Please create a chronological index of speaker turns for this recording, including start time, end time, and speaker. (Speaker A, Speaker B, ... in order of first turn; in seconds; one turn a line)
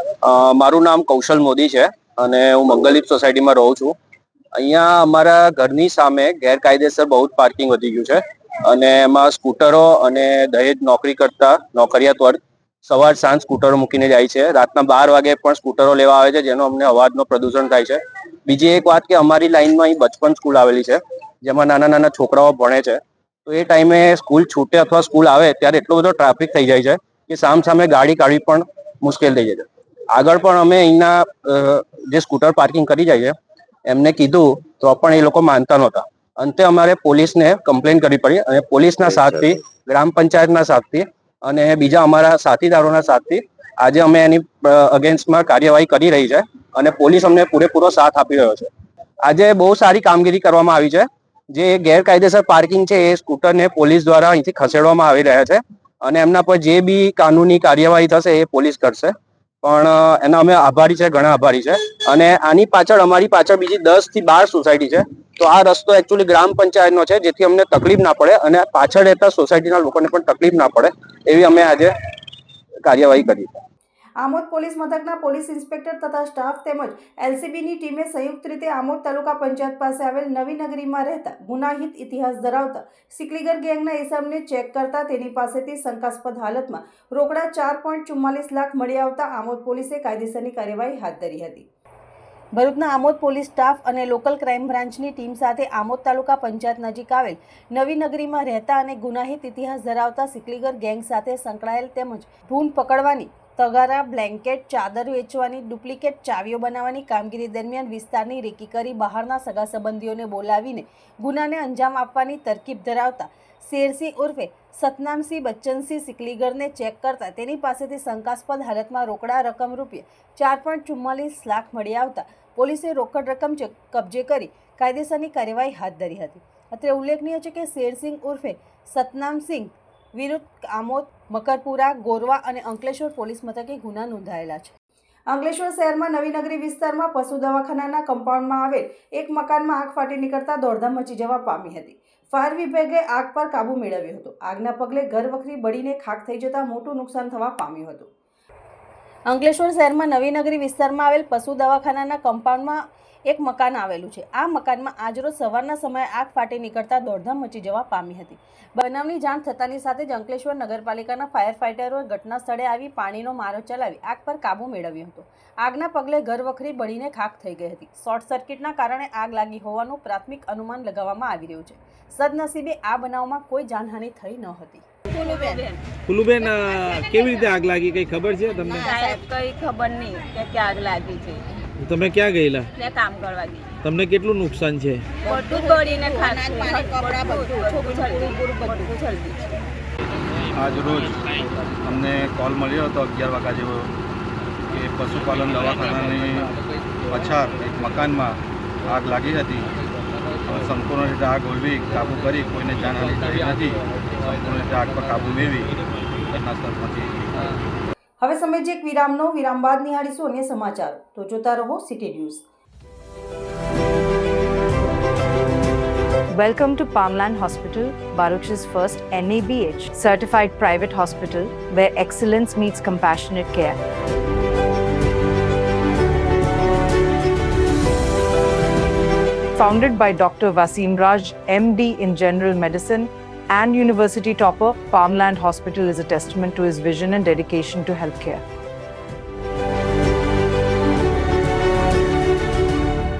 Speaker A: 0.2-3.9
Speaker A: 4.5-33.3
Speaker A: 33.9-48.7
Speaker A: 49.2-71.9
Speaker A: 72.8-73.6
Speaker B: 74.2-91.7
Speaker B: 92.5-134.7
Speaker B: 135.3-148.1
Speaker B: 149.3-174.8
Speaker C: 175.1-175.8
Speaker D: 176.1-178.8
Speaker C: 178.7-181.4
Speaker B: 178.8-179.2
Speaker D: 181.8-182.7
Speaker C: 182.8-183.7
Speaker D: 183.8-185.1
Speaker C: 185.2-189.3
Speaker B: 185.2-189.2
Speaker E: 190.5-193.9
Speaker E: 194.7-196.5
Speaker E: 197.1-199.7
Speaker E: 200.5-207.6
Speaker B: 208.2-212.4
Speaker F: 216.3-223.8
Speaker F: 229.6-238.4